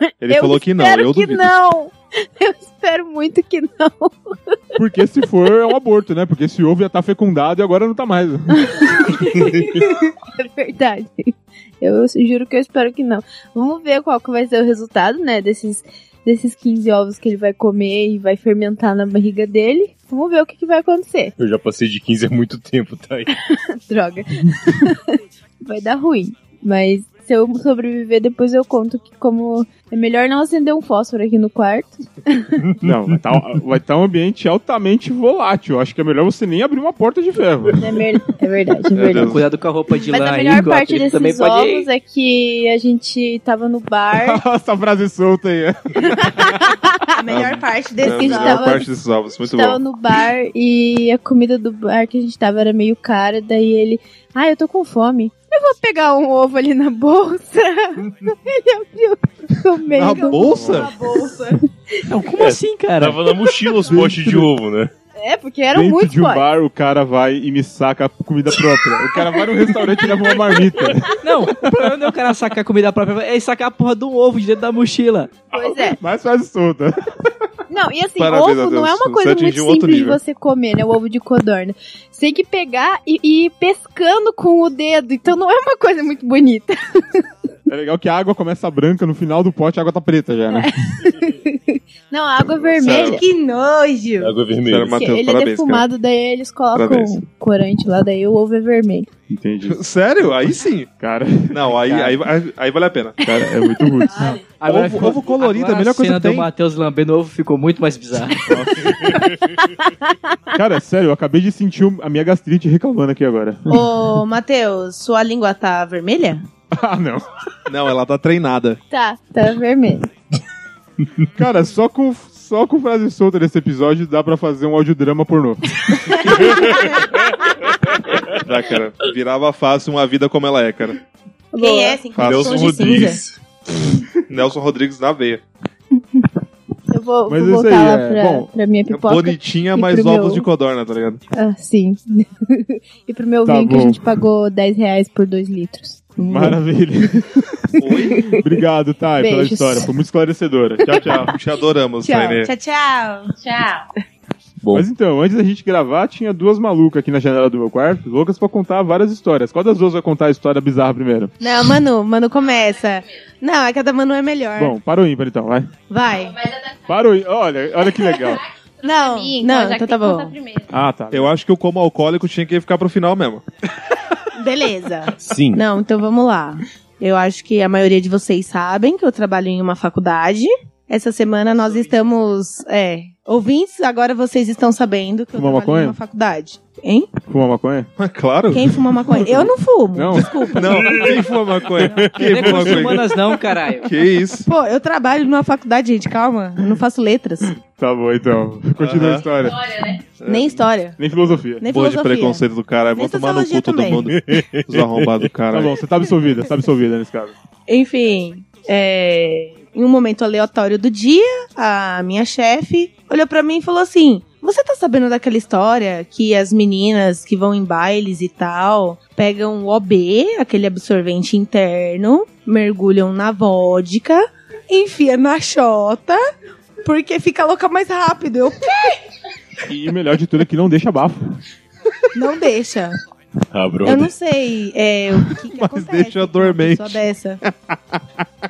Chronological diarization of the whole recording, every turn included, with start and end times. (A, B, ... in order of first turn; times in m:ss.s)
0:00.2-0:01.5 A
0:00.2-0:04.8 B
0:04.8-0:08.8 C
0:08.6-0:21.3 B
0:21.4-0:23.3 D
0:23.3-0:32.6 B
0:32.6-0:33.1 D
0:32.8-0:37.8 C
0:37.8-0:39.4 B
0:38.9-0:39.4 A
0:39.1-0:41.9 E
0:40.1-0:44.4 B
0:44.1-0:46.7 C
0:46.1-0:47.0 B
0:47.2-0:48.8 F
0:47.3-0:49.8 A
0:48.0-0:48.9 B
0:49.4-1:00.9 B
0:59.9-1:00.9 A
1:00.1-1:01.6 F
1:02.0-1:03.5 E
1:02.4-1:04.9 D
1:03.8-1:04.5 C
1:05.2-1:06.5 B
1:05.7-1:11.9 C
1:09.1-1:11.2 B
1:11.2-1:15.3 E
1:15.5-1:16.0 B
1:15.6-1:16.9 C
1:17.7-1:27.3 B
1:18.2-1:20.2 A
1:27.7-1:30.7 C
1:30.6-1:33.2 B
1:32.8-1:33.2 A
1:32.8-1:34.4 F
1:34.2-1:35.0 D
1:34.7-1:35.9 A
1:34.9-1:39.1 B
1:36.7-1:37.2 A
1:39.3-1:39.8 C
1:39.7-1:40.9 A
1:41.0-1:41.8 C
1:41.5-1:43.2 A
1:43.2-1:44.4 C
1:43.8-1:44.3 B
1:44.6-1:48.4 E
1:44.6-1:46.5 A
1:48.5-1:49.1 C
1:48.8-1:50.4 B
1:50.6-1:53.9 C
1:53.7-1:56.4 F
1:56.7-1:57.2 C
1:57.7-1:58.8 A
1:58.9-2:00.1 B
2:01.4-2:06.2 C
2:06.3-2:06.7 B
2:08.4-2:11.0 A
2:11.5-2:12.1 B
2:11.6-2:13.2 F
2:12.2-2:12.9 A
2:12.2-2:13.4 D
2:14.3-2:15.4 A
2:16.9-2:20.5 B
2:17.3-2:18.5 C
2:18.9-2:21.2 A
2:21.4-2:27.2 B
2:23.4-2:24.0 C
2:26.3-2:27.3 C
2:27.8-2:28.6 B
2:27.8-2:28.2 A
2:28.3-2:31.3 C
2:29.2-2:29.9 B
2:30.9-2:31.2 B
2:30.9-2:32.5 A
2:32.0-2:32.4 B
2:32.4-2:33.3 F
2:33.4-2:33.9 G
2:34.6-2:34.9 D
2:34.7-2:41.3 C
2:41.4-2:44.8 F
2:42.3-2:43.2 G
2:44.6-2:45.7 C
2:45.9-2:46.4 F
2:46.2-2:47.1 G
2:46.9-2:48.4 C
2:47.8-2:50.8 G
2:48.8-2:50.3 F
2:50.7-2:51.3 C
2:51.1-2:53.4 A
2:54.4-3:07.1 F
2:55.2-2:55.6 D
3:05.3-3:06.0 C
3:07.3-3:07.9 C
3:08.0-3:08.8 A
3:08.5-3:11.1 F
3:09.1-3:11.0 C
3:10.5-3:13.0 A
3:10.9-3:11.2 D
3:11.8-3:13.0 D
3:12.2-3:13.9 E
3:13.8-3:14.5 A
3:14.5-3:17.5 F
3:17.6-3:19.6 C
3:18.8-3:19.3 A
3:19.4-3:20.1 G
3:20.2-3:20.6 A
3:20.2-3:21.0 F
3:21.0-3:21.6 C
3:21.6-3:22.4 F
3:21.7-3:25.8 A
3:23.0-3:24.0 F
3:24.1-3:25.1 D
3:25.5-3:27.4 C
3:27.7-3:46.2 F
3:46.8-3:49.0 F
3:49.7-3:51.2 C
3:52.2-3:53.0 F
3:53.5-3:54.1 D
3:53.8-3:57.4 F
3:55.5-3:58.0 A